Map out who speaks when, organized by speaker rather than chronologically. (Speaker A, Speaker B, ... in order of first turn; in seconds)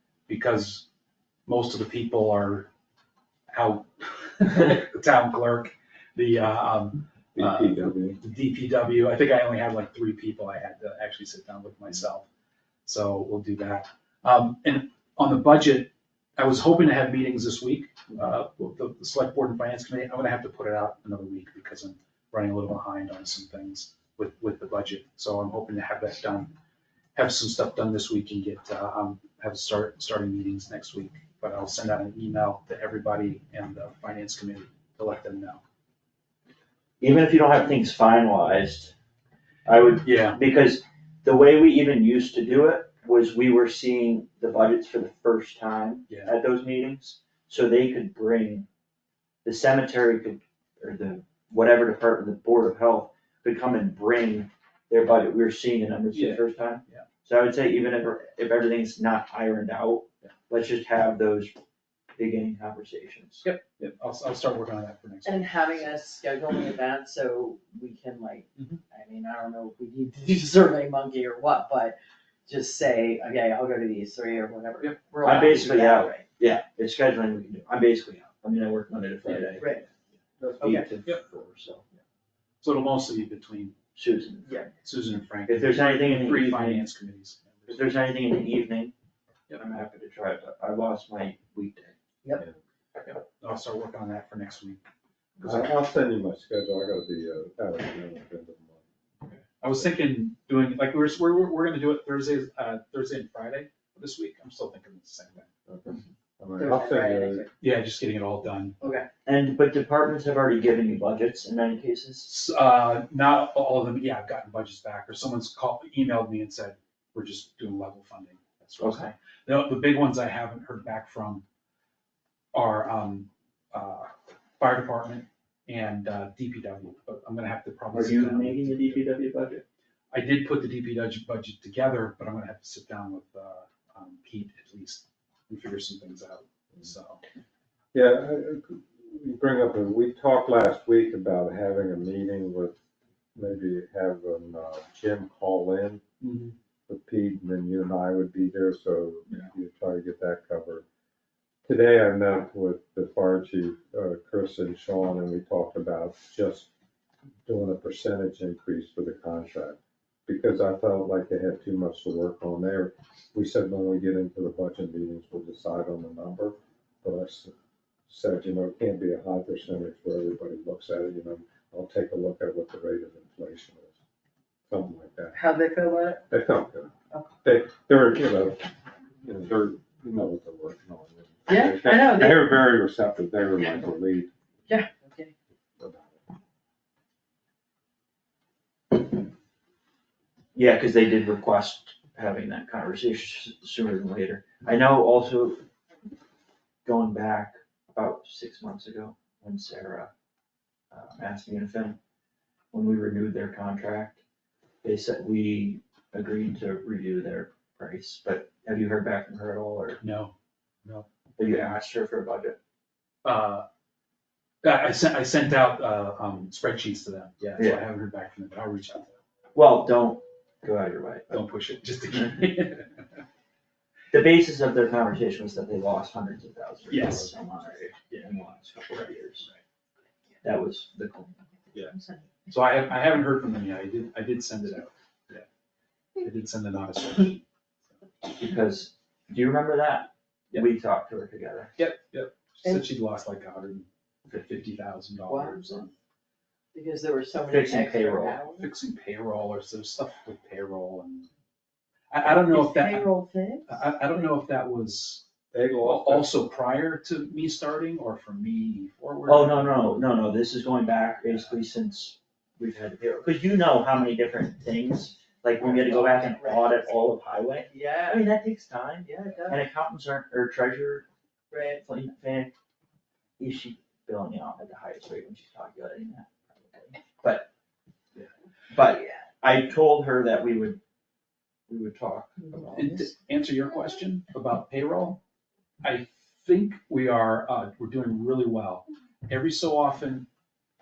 Speaker A: 0.3-0.8, 1.5-2.7, 3.5-12.2, 12.8-26.5, 27.1-35.6, 40.0-40.4, 46.1-46.3, 56.1-57.0, 63.4-65.8, 68.5-68.8, 74.8-75.7, 79.2-79.7, 82.6-83.8, 84.8-87.9, 93.0-94.8, 99.6-105.5, 107.6-108.8, 112.2-121.4, 122.5-129.0, 130.1-137.2, 146.2-146.5, 210.0-211.8, 213.2-213.7, 214.6-219.2, 221.3-223.2, 226.9-227.3, 228.9-229.6, 232.5-235.4, 236.2-237.4, 241.8-245.9, 248.5-251.3, 252.1-253.1, 253.7-255.2, 255.8-260.1, 282.7-285.2, 285.8-290.3
Speaker B: 7.3-8.2, 80.4-80.9, 95.4-98.8, 105.7-107.5, 137.9-142.7, 143.3-146.0, 146.9-150.8, 151.6-156.7, 157.4-167.5, 168.1-173.9, 174.7-175.3, 176.3-184.3, 185.8-186.2, 255.5-256.3
Speaker C: 37.0-38.9, 39.6-48.6, 49.4-61.5, 62.1-63.4, 75.2-79.8, 80.6-81.8, 83.9-84.6, 85.5-86.9, 87.7-88.9, 89.6-92.0, 95.4-95.7, 109.2-112.3, 118.8-119.1, 127.9-129.6, 190.5-195.6, 196.8-200.1, 200.9-202.0, 202.7-204.2, 204.8-210.0, 211.4-212.6, 217.6-217.8, 219.5-221.4, 224.1-229.5, 230.4-231.4, 238.4-241.7, 247.4-248.4, 259.2-271.1, 271.7-272.5, 273.4-277.5, 278.1-280.8, 281.7-283.0
Speaker D: 65.2-76.2, 79.6-79.8, 80.6-80.8, 106.6-107.5, 108.8-109.1, 175.3-176.2, 181.5-182.6, 183.6-183.8, 184.7-185.3, 245.3-245.9, 246.7-248.7, 252.2-253.7, 265.6-266.8, 267.7-268.2, 269.3-269.6, 271.5-271.8